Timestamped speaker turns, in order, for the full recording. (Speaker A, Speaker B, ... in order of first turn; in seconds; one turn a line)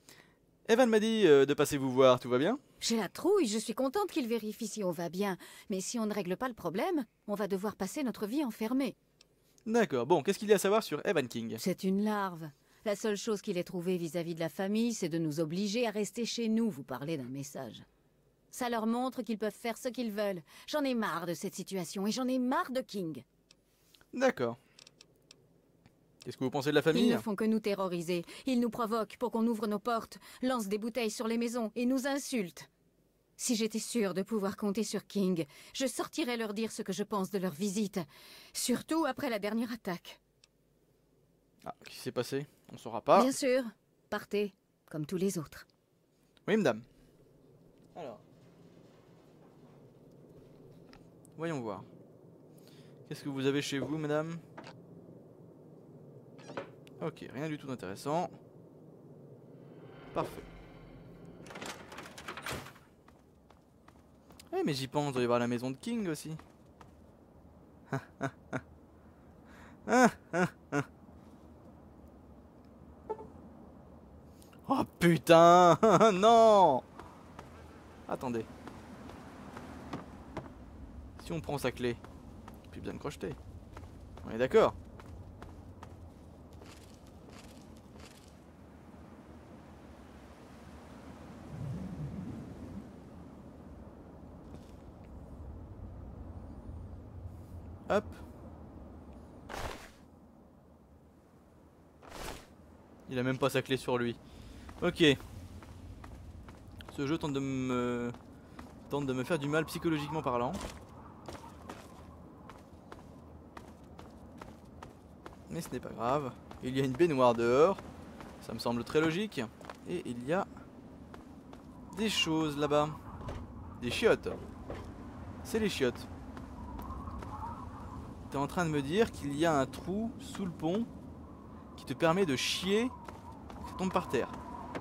Speaker A: 0.7-2.6
Speaker B: 2.8-9.0
Speaker A: 9.7-11.6
Speaker B: 11.6-17.9
Speaker B: 18.5-23.2
Speaker A: 24.1-24.6
Speaker A: 26.2-27.2
Speaker B: 26.9-32.7
Speaker B: 33.4-40.2
Speaker A: 41.6-43.3
Speaker B: 43.1-45.6
Speaker A: 46.5-46.9
Speaker A: 48.0-48.2
Speaker A: 51.4-51.9
Speaker A: 53.1-54.4
Speaker A: 57.0-58.3
Speaker A: 60.1-60.5
Speaker A: 64.5-66.4
Speaker A: 67.9-68.6
Speaker A: 69.9-70.9
Speaker A: 74.7-76.8
Speaker A: 78.1-78.5
Speaker A: 81.2-82.0
Speaker A: 82.7-83.4
Speaker A: 84.2-84.8
Speaker A: 97.9-98.2
Speaker A: 103.1-104.2
Speaker A: 104.8-105.2
Speaker A: 106.9-108.2
Speaker A: 108.9-110.6
Speaker A: 115.5-117.8
Speaker A: 118.4-120.5
Speaker A: 121.9-123.0
Speaker A: 123.8-124.4
Speaker A: 125.4-126.1
Speaker A: 128.3-130.9
Speaker A: 131.8-132.9
Speaker A: 133.6-134.4